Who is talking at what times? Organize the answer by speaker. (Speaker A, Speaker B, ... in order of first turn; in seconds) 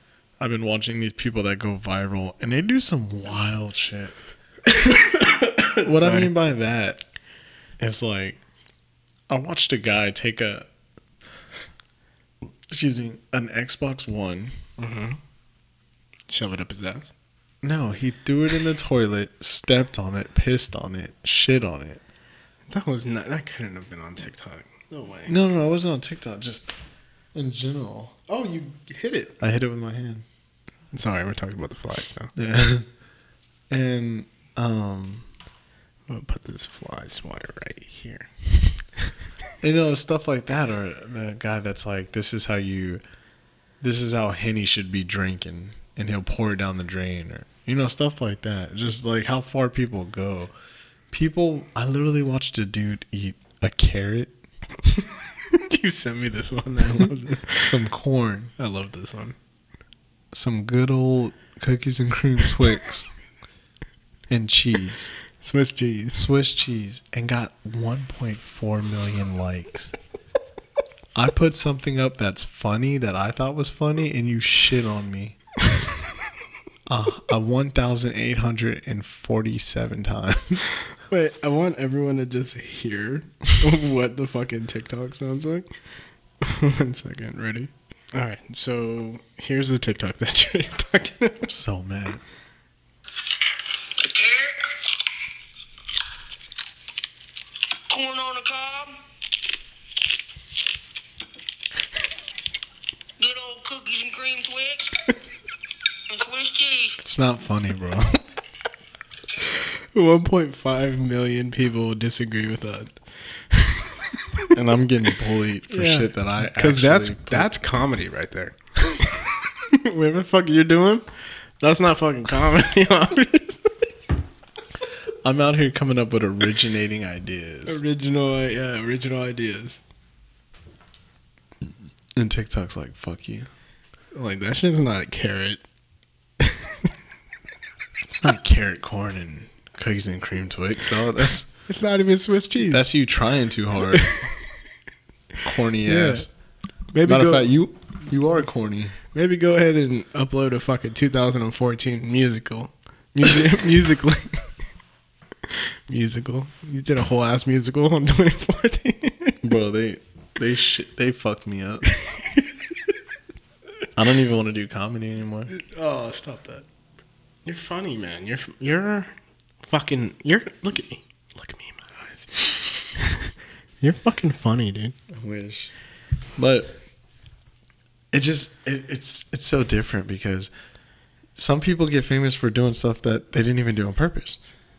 Speaker A: 0.4-4.2, 5.8-7.0, 7.8-8.4, 9.3-10.7, 12.7-14.6, 17.6-22.0, 25.3-26.7, 27.3-28.2, 29.4-30.2, 32.4-32.9, 33.7-35.3, 39.6-43.0, 43.8-50.5, 51.1-54.4, 57.5-58.5, 60.3-63.1, 64.3-65.1, 66.1-69.9, 71.2-75.4, 76.9-80.6, 91.5-92.2, 107.0-108.2, 114.5-117.5, 125.2-127.8, 132.2-133.5, 138.2-141.5, 142.7-144.2, 145.4-146.3, 147.0-149.0, 159.4-161.9, 164.0-165.5, 175.1-175.7, 176.4-176.8, 178.1-180.5, 181.4-184.4
Speaker B: 4.7-6.3, 14.8-15.2, 16.3-17.1, 22.7-25.4, 28.3-29.4, 30.9-32.3, 36.1-39.1, 55.0-57.7, 58.6-59.4, 65.4-66.3, 81.1-85.7, 86.4-91.5, 109.4-114.5, 115.7-121.1, 121.6-123.8, 127.7-129.8, 134.1-135.6, 136.4-136.9, 141.7-142.8, 143.9-144.3, 145.8-146.3, 146.9-147.5, 149.1-154.5, 155.5-159.4, 161.9-162.5, 165.5-166.7, 167.4-169.1, 169.6-174.9
Speaker C: 94.0-94.6, 97.9-99.0, 103.2-105.0, 106.1-107.0